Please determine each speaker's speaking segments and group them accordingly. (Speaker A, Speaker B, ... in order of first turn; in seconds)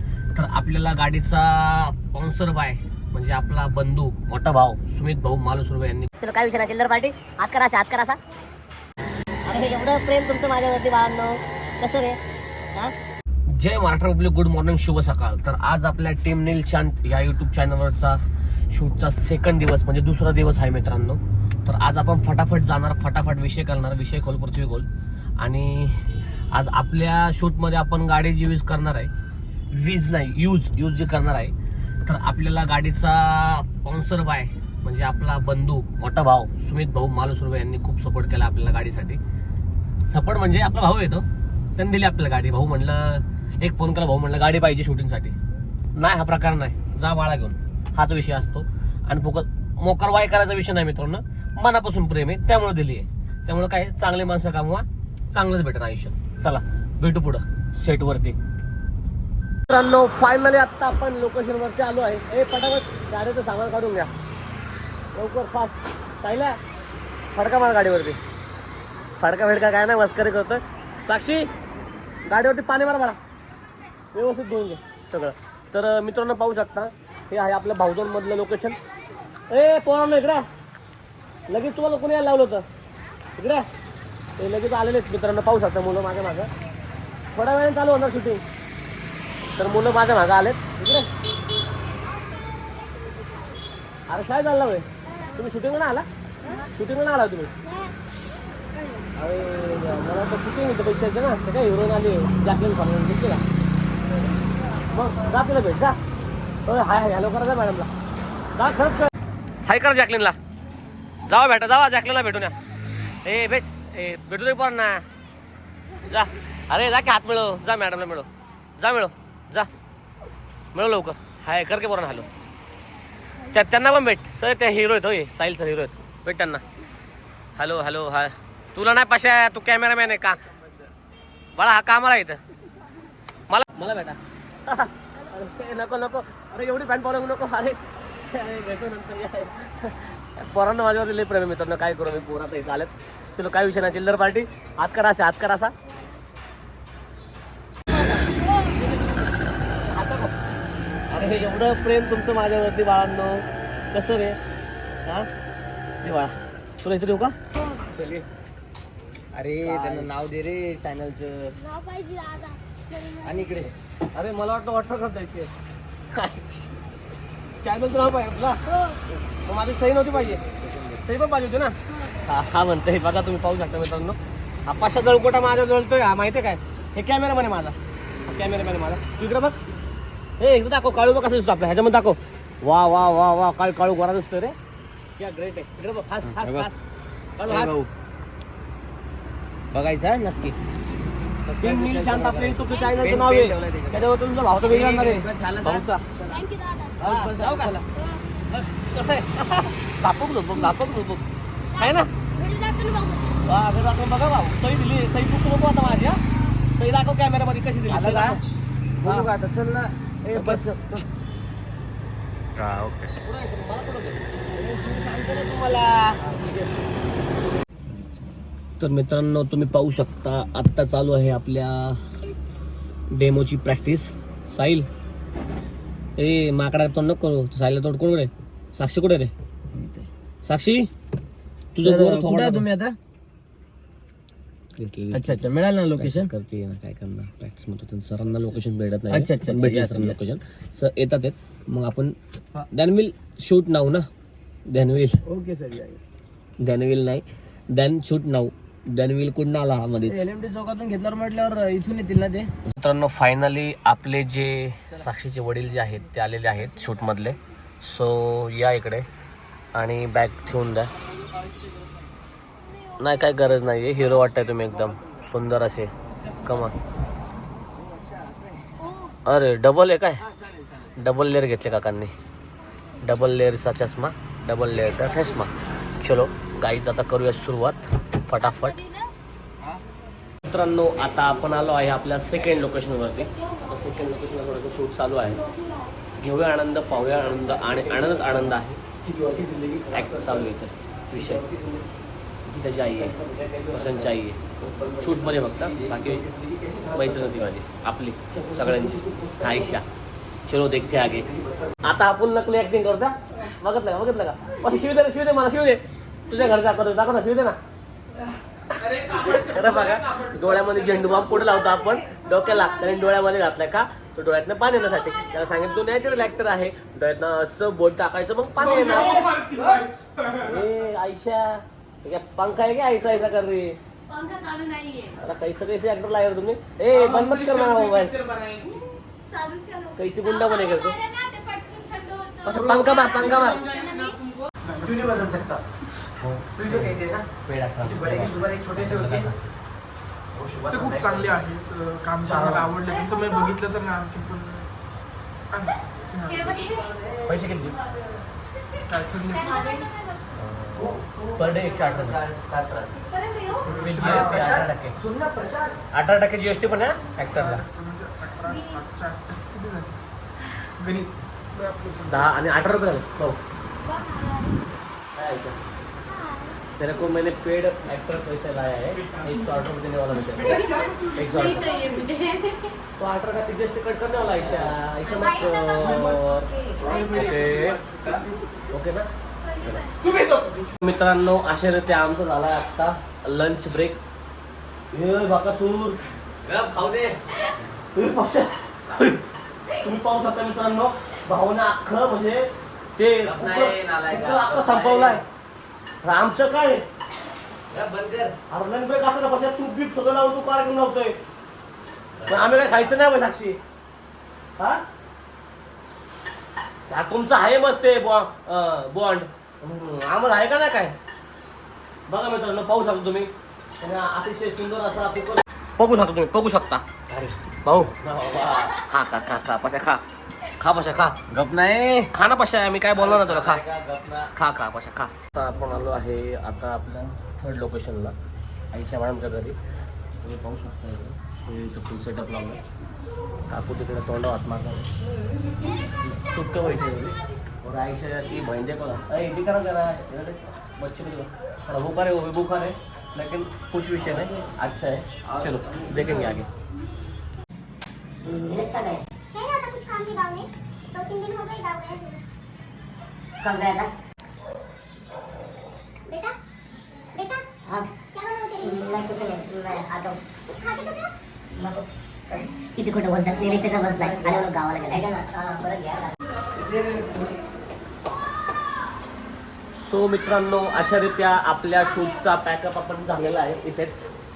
Speaker A: 0.3-6.1, 13.5-24.9, 25.4-29.1, 29.7-39.2, 40.1-45.4, 46.0-58.4, 59.7-64.1, 65.1-66.6, 67.3-68.2, 69.2-71.5, 72.3-73.2, 74.1-78.8, 79.5-80.5, 81.5-82.7, 83.4-83.7, 84.4-86.5, 87.3-88.4, 89.5-91.1, 94.1-97.5, 99.2-103.4, 104.9-106.0, 106.7-107.9, 108.6-109.1, 109.7-110.4, 111.3-112.5, 113.2-115.0, 116.0-119.7, 120.7-122.3, 123.5-126.6, 127.6-130.4, 131.6-132.4, 133.5-145.7, 149.8-150.3, 151.1-154.4, 156.0-157.4, 159.6-160.1, 164.1-165.5, 166.1-166.8, 167.6-168.6, 169.3-170.4, 171.0-177.8, 178.3-179.6, 180.4-184.6, 185.2-186.8, 187.4-187.8, 191.6-196.0, 197.0-197.8, 198.5-201.3, 201.8-202.1, 203.4-206.2, 206.7-208.4, 209.0-209.3, 210.3-210.7, 213.2-216.7, 218.8-222.0, 223.1-224.9, 226.2-229.3, 230.5-230.9, 231.8-232.7, 234.8-242.2, 242.7-244.1, 244.7-245.2, 246.6-250.3, 252.7-259.1, 259.8-260.9, 263.0-265.9, 266.4-266.8, 269.3-270.2, 271.0-272.1, 273.0-278.8, 280.4-285.4, 286.2-288.8, 289.9-291.4, 292.5-293.1, 293.7-294.4, 295.0-296.3, 296.9-299.9, 300.5-301.3, 301.8-307.6, 308.8-319.5, 320.2-323.8, 325.1-328.2, 330.0-331.0, 332.4-333.6, 336.2-339.5, 347.2-347.8, 350.4-352.2, 353.6-355.0, 355.9-357.6, 362.1-363.4, 365.1-365.6, 366.8-371.9, 373.0-377.8, 378.7-379.9, 380.7-384.0, 384.9-386.0, 387.9-395.2, 396.0-396.9, 398.5-401.2, 402.2-403.6, 404.6-404.8, 406.9-411.0, 412.1-420.0, 420.6-421.2, 422.1-423.6, 424.2-428.1, 428.7-429.6, 430.2-432.6, 433.5-434.9, 436.0-446.5, 469.8-474.1
Speaker B: 6.2-8.2, 9.5-12.2, 448.2-449.0, 453.4-453.9, 457.6-457.9, 458.6-460.2, 461.6-466.1
Speaker C: 92.6-93.6, 449.3-452.2, 456.1-456.4, 457.1-457.6, 458.1-459.1, 460.5-461.1
Speaker D: 157.9-158.3, 159.3-161.6, 163.2-163.7, 170.4-170.9, 186.2-186.7, 187.5-187.9, 189.7-190.6, 191.4-194.1, 194.6-196.4, 197.0-197.8, 207.9-208.4, 209.0-211.0, 214.9-215.3, 217.9-218.3, 229.7-230.1, 231.8-233.0, 235.1-236.3, 239.1-240.2, 245.3-246.0, 250.1-252.5, 267.8-268.8, 270.3-270.9, 287.3-290.5, 291.1-291.9, 292.9-297.4, 298.3-299.8, 300.8-301.8, 327.1-327.6, 328.2-328.6, 334.8-335.6, 336.5-337.3, 337.8-339.3, 340.3-341.4, 342.2-342.7, 346.4-348.0, 350.8-353.0, 354.0-355.8, 374.4-374.7, 376.8-378.3, 386.4-387.2, 393.2-395.2, 397.7-398.4, 402.2-403.0, 421.3-422.1, 422.9-424.3, 445.3-446.2, 466.6-467.3
Speaker E: 161.6-163.3, 196.3-197.0, 201.8-203.4, 268.9-269.1, 311.4-313.0, 315.0-316.0, 318.8-319.4, 324.1-325.2, 329.3-334.3, 342.9-343.4, 346.3-346.8, 349.3-350.2, 353.1-353.6, 358.5-358.9, 363.9-364.6, 366.1-366.5, 370.4-372.7, 375.1-377.4, 379.5-380.0
Speaker F: 334.6-335.4, 340.7-344.7, 345.5-346.5, 348.9-349.8, 353.6-354.6, 357.3-359.9, 360.8-362.4